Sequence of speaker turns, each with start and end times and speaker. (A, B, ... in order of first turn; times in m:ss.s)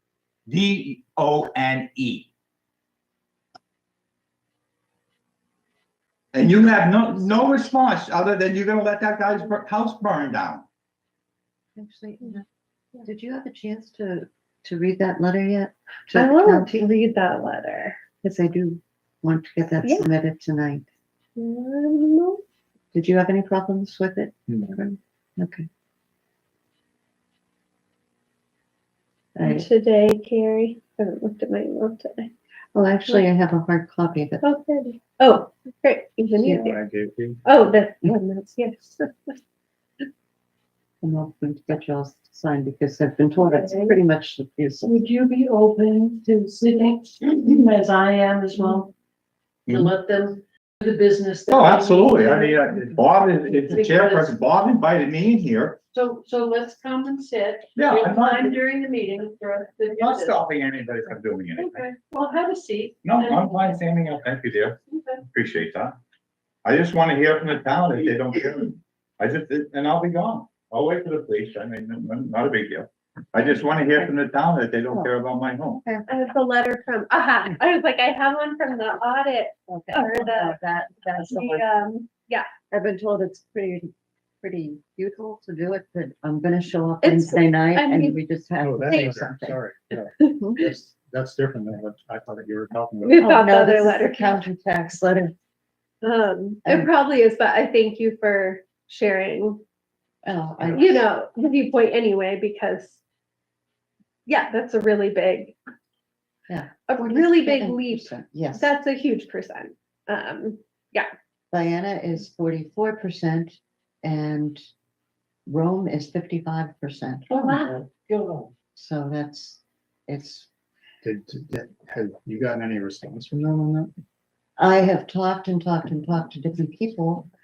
0:00.5-0:02.3 A
0:06.3-0:10.6 A
0:11.8-0:12.4 B
0:13.0-0:16.9 B
0:16.1-0:18.0 C
0:18.2-0:20.9 B
0:21.4-0:22.4 C
0:22.9-0:25.7 B
0:29.4-0:29.7 B
0:29.4-0:32.3 C
0:32.7-0:34.4 B
0:34.4-0:36.8 C
0:36.5-0:37.4 D
0:37.4-0:39.4 C
0:41.0-0:45.0 B
0:43.6-0:43.9 E
0:44.8-0:48.9 E
0:49.7-0:49.9 A
0:49.7-0:52.6 E
0:51.5-0:55.8 A
0:53.5-0:54.3 E
0:55.9-1:00.4 E
0:57.7-0:58.6 A
1:00.0-1:01.9 A
1:01.6-1:03.8 E
1:03.0-1:05.9 A
1:06.6-1:15.8 A
1:16.1-1:22.5 C
1:19.7-1:21.6 B
1:22.7-1:29.6 B
1:27.0-1:28.2 C
1:28.6-1:33.3 D
1:30.4-1:30.7 B
1:33.0-1:34.4 C
1:33.2-1:35.3 B
1:36.0-1:39.6 C
1:36.6-1:36.9 B
1:40.2-1:41.0 B
1:40.7-1:43.0 C
1:44.2-1:45.6 C
1:46.5-1:48.7 B
1:46.9-1:51.1 C
1:51.5-1:54.6 B
1:55.5-1:57.6 B
1:57.3-1:58.5 E
1:58.8-2:00.5 B
2:01.0-2:03.4 D
2:03.3-2:03.9 B
2:04.6-2:07.3 B